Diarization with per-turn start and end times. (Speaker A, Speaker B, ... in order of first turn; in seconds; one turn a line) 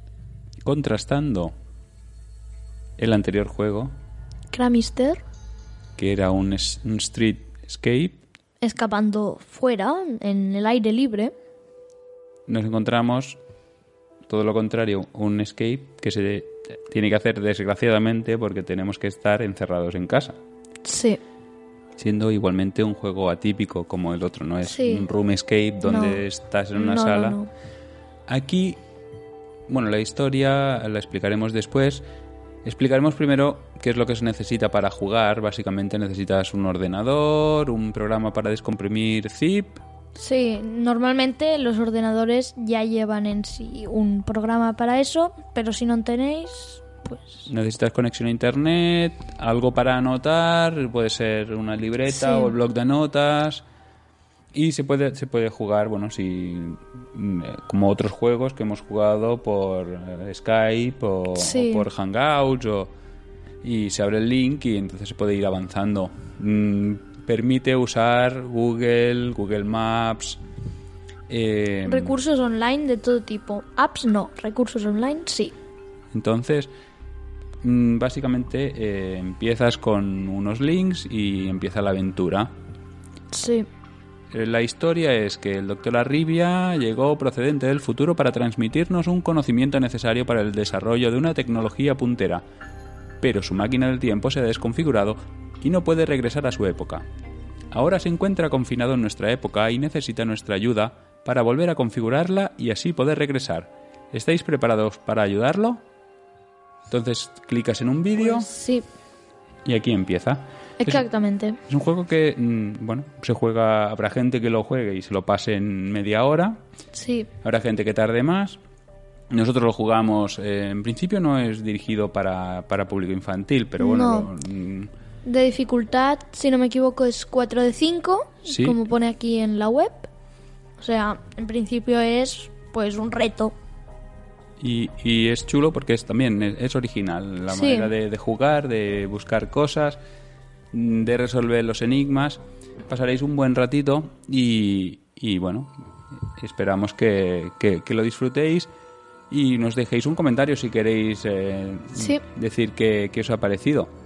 Speaker A: 0.6-1.5
Speaker A: 3.0-3.9
Speaker B: 4.5-5.2
Speaker A: 6.0-8.2
Speaker B: 8.6-11.3
Speaker A: 12.5-13.4
Speaker A: 14.3-20.4
Speaker B: 20.8-21.2
Speaker A: 21.9-27.4
Speaker B: 24.6-25.1
Speaker B: 25.8-27.5
Speaker A: 28.3-28.8
Speaker A: 29.7-32.0
Speaker A: 32.6-39.8
Speaker B: 40.2-47.5
Speaker A: 47.5-53.6
Speaker B: 52.1-52.5
Speaker A: 54.5-62.9
Speaker B: 61.3-61.9
Speaker A: 63.6-70.4
Speaker A: 71.3-72.2
Speaker B: 71.8-75.5
Speaker A: 76.1-76.7
Speaker A: 77.6-82.5
Speaker B: 83.3-83.7
Speaker A: 84.3-92.4
Speaker A: 93.2-97.0
Speaker A: 97.7-105.8
Speaker A: 106.9-108.5
Speaker B: 108.2-108.9
Speaker A: 109.6-111.0
Speaker B: 110.8-111.6
Speaker A: 111.7-116.6
Speaker B: 116.9-117.3
Speaker A: 117.4-118.6
Speaker A: 119.3-124.9
Speaker B: 123.8-124.3
Speaker B: 125.2-130.1
Speaker A: 128.4-128.8
Speaker B: 130.8-133.5
Speaker A: 134.6-140.0
Speaker B: 137.5-137.9
Speaker A: 140.7-148.7
Speaker A: 149.3-153.9
Speaker B: 151.9-152.2